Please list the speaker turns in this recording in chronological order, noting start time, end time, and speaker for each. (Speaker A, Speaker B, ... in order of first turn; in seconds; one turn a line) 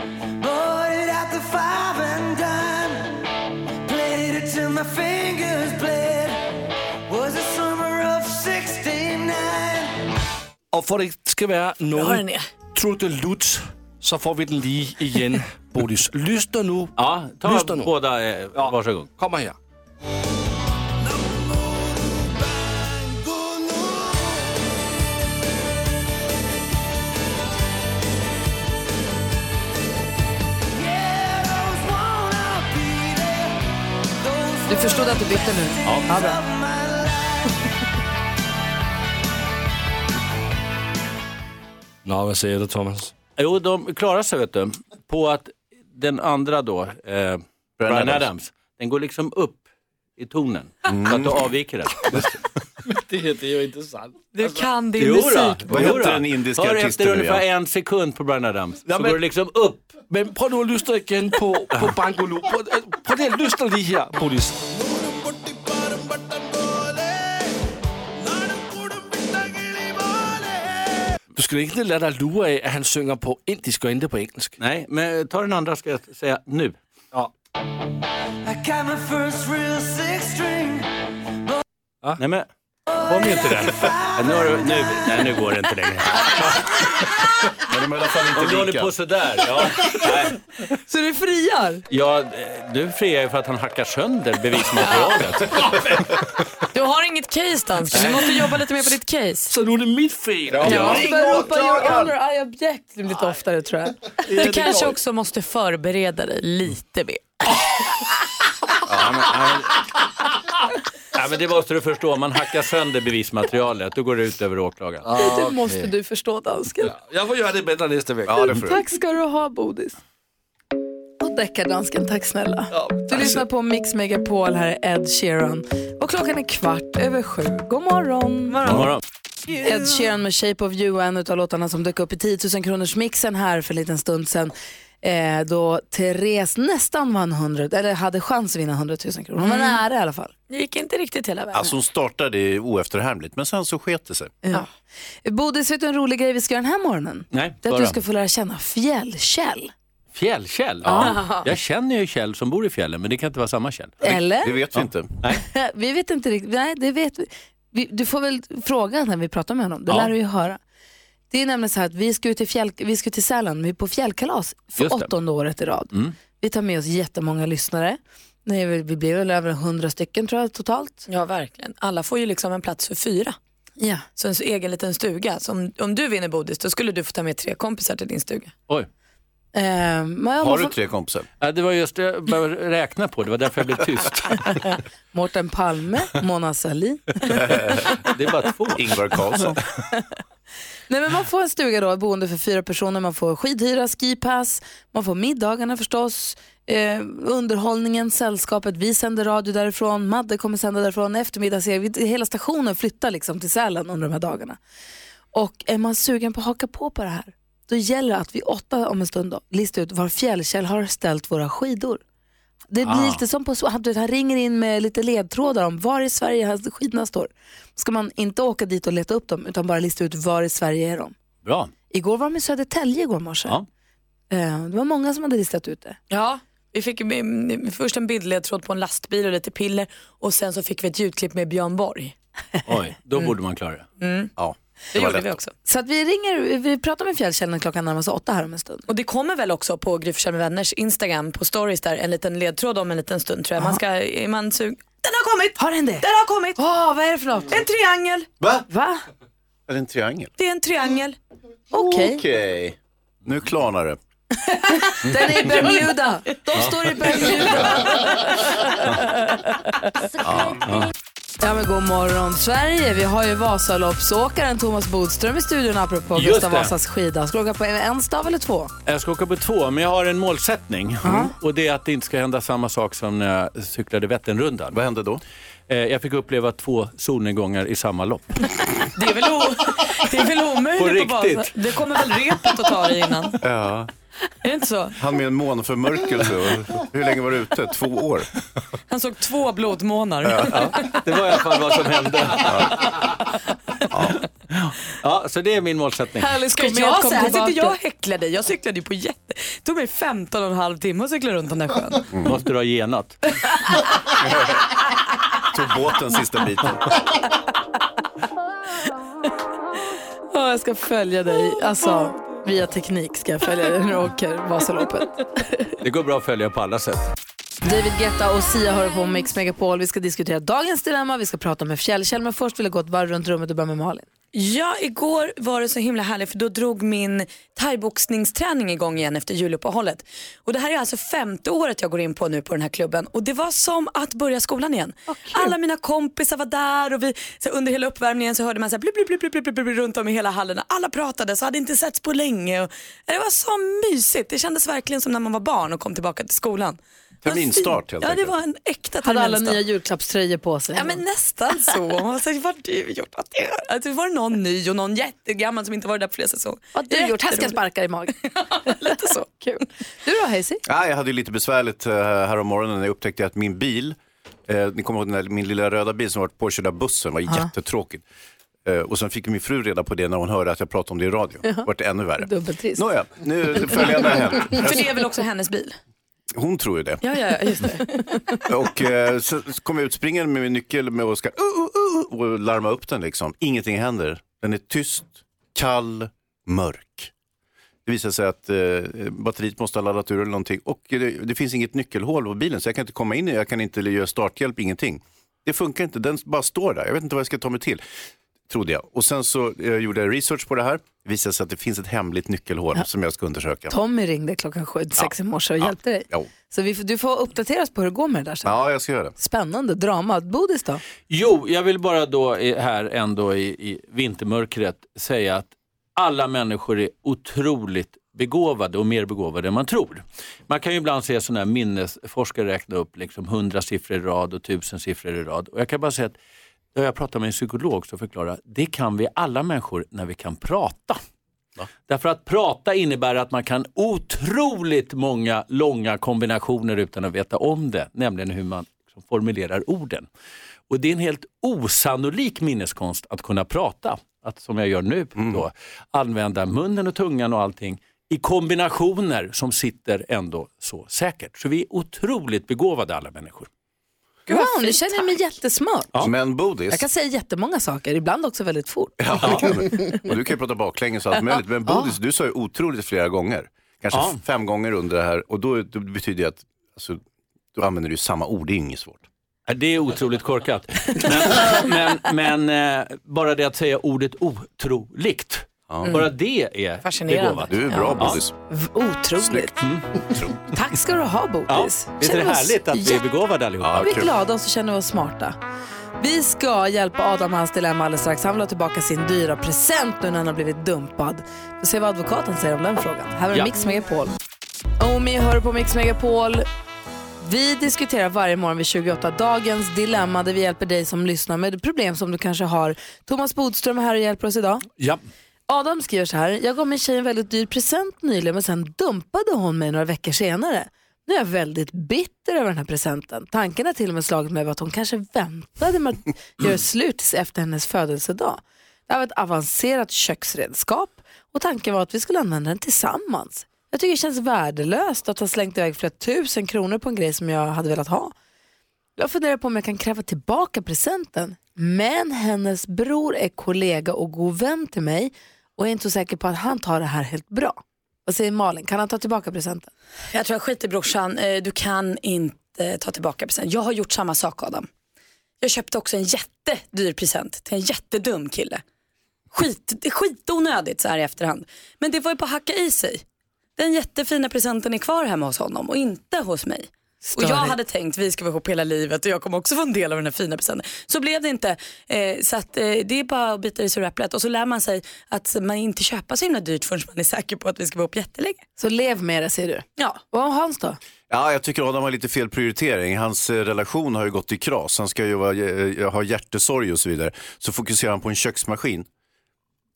Speaker A: 0.4-3.2
Speaker A: 3.8-6.4
Speaker A: 7.1-10.0
Speaker B: 10.7-16.9
Speaker C: 11.9-12.4
Speaker D: 17.0-19.1
Speaker B: 17.4-17.9
Speaker B: 18.5-19.6
Speaker B: 23.1-23.5
Speaker A: 30.7-33.6
Speaker A: 34.2-37.5
Speaker E: 34.7-36.4
Speaker D: 35.8-36.1
Speaker B: 42.0-43.2
Speaker D: 43.4-49.6
Speaker F: 47.8-48.3
Speaker D: 50.2-52.3
Speaker F: 50.9-51.4
Speaker B: 52.9-54.6
Speaker C: 54.3-55.8
Speaker D: 55.0-60.0
Speaker F: 55.7-57.4
Speaker B: 58.9-59.2
Speaker B: 60.1-64.7
Speaker B: 65.5-66.9
Speaker B: 68.3-69.9
Speaker B: 71.3-74.5
Speaker D: 74.6-76.8
Speaker A: 78.4-80.9
Speaker D: 82.2-82.5
Speaker A: 83.1-84.7
Speaker D: 83.1-87.0
Speaker F: 87.6-88.9
Speaker D: 88.3-90.4
Speaker E: 90.9-91.8
Speaker D: 91.9-95.7
Speaker C: 96.7-99.5
Speaker B: 97.9-98.6
Speaker B: 99.5-102.1
Speaker F: 100.5-100.9
Speaker E: 100.6-104.5
Speaker B: 104.2-105.0
Speaker C: 104.3-107.2
Speaker F: 108.9-109.2
Speaker D: 109.0-109.7
Speaker D: 111.1-115.1
Speaker B: 115.0-115.9
Speaker E: 115.2-116.9
Speaker B: 116.8-118.6
Speaker F: 118.2-118.8
Speaker E: 118.4-120.0
Speaker E: 121.2-128.6
Speaker B: 122.7-123.4
Speaker D: 128.7-129.0
Speaker E: 129.6-140.3
Speaker C: 139.4-139.8
Speaker C: 140.5-141.7
Speaker F: 141.5-144.3
Speaker E: 145.2-149.7
Speaker D: 147.3-148.0
Speaker D: 150.1-154.0
Speaker E: 154.0-154.6
Speaker F: 154.1-155.2
Speaker D: 154.7-155.4
Speaker E: 155.4-160.6
Speaker E: 161.3-171.1
Speaker D: 164.8-165.1
Speaker C: 171.1-173.3
Speaker E: 173.8-174.0
Speaker C: 174.2-178.5
Speaker E: 179.5-180.7
Speaker F: 180.4-181.3
Speaker D: 181.4-184.7
Speaker E: 185.1-187.4
Speaker F: 187.4-187.7
Speaker D: 188.1-188.8
Speaker F: 188.8-189.6
Speaker E: 190.9-204.6
Speaker E: 205.3-212.0
Speaker E: 212.7-221.1
Speaker D: 212.8-213.2
Speaker D: 221.4-221.7
Speaker E: 221.9-223.6
Speaker E: 224.3-226.0
Speaker C: 226.1-232.1
Speaker D: 232.7-233.8
Speaker C: 234.0-234.3
Speaker F: 234.4-235.3
Speaker C: 234.9-235.5
Speaker E: 235.6-238.8
Speaker C: 238.9-246.6
Speaker E: 245.6-246.0
Speaker E: 246.6-247.6
Speaker C: 247.5-248.3
Speaker E: 248.7-249.0
Speaker F: 249.7-250.3
Speaker C: 250.4-251.2
Speaker E: 251.7-252.2
Speaker F: 251.7-254.0
Speaker E: 254.4-258.5
Speaker C: 255.5-255.8
Speaker F: 260.2-260.6
Speaker E: 261.4-268.7
Speaker D: 266.1-266.7
Speaker D: 268.9-274.8
Speaker E: 271.0-271.3
Speaker F: 274.7-275.2
Speaker D: 275.7-278.2
Speaker C: 278.9-283.4
Speaker D: 280.8-281.6
Speaker F: 283.4-283.9
Speaker C: 284.4-285.0
Speaker F: 285.0-288.3
Speaker C: 288.9-291.0
Speaker F: 290.2-290.7
Speaker D: 290.4-292.5
Speaker D: 294.5-296.3
Speaker C: 296.3-302.1
Speaker E: 296.4-297.7
Speaker D: 302.2-303.2
Speaker F: 304.2-304.5
Speaker F: 305.5-306.8
Speaker E: 310.3-315.6
Speaker D: 315.8-317.1
Speaker E: 317.6-324.1
Speaker C: 324.3-349.6
Speaker E: 335.1-335.5
Speaker F: 347.2-348.4
Speaker E: 349.0-351.0
Speaker C: 350.7-357.6
Speaker E: 356.7-358.1
Speaker C: 358.2-359.6
Speaker E: 360.0-360.6
Speaker F: 360.6-368.0
Speaker F: 368.6-374.9
Speaker E: 372.2-372.9
Speaker C: 374.4-375.8
Speaker F: 376.3-377.0
Speaker C: 377.0-378.4
Speaker F: 378.5-387.1
Speaker F: 387.9-397.8
Speaker F: 398.5-403.7
Speaker E: 403.7-408.5
Speaker F: 405.0-406.3
Speaker F: 408.4-409.1
Speaker E: 409.2-410.8
Speaker D: 411.1-426.1
Speaker D: 426.7-431.0
Speaker D: 431.9-440.1
Speaker D: 440.7-453.5
Speaker F: 445.1-445.4
Speaker E: 454.3-455.9
Speaker C: 454.3-454.9
Speaker F: 456.0-456.8
Speaker E: 456.7-459.9
Speaker F: 459.0-467.0
Speaker D: 463.9-464.2
Speaker F: 467.5-469.0
Speaker D: 469.5-478.2
Speaker F: 475.7-476.0
Speaker C: 476.8-478.0
Speaker F: 477.5-478.3
Speaker E: 478.5-479.6
Speaker F: 479.2-479.5
Speaker D: 479.6-479.8
Speaker F: 480.1-480.4
Speaker E: 480.5-483.0
Speaker D: 481.5-483.9
Speaker F: 483.6-484.1
Speaker E: 483.7-485.4
Speaker E: 486.0-494.1
Speaker E: 494.8-496.4
Speaker E: 497.2-504.6
Speaker E: 505.5-528.1
Speaker E: 529.0-539.7
Speaker C: 540.1-544.7
Speaker C: 545.4-548.6
Speaker C: 549.3-553.0
Speaker C: 553.6-568.4
Speaker E: 557.0-557.5
Speaker E: 568.6-570.8
Speaker F: 571.1-578.9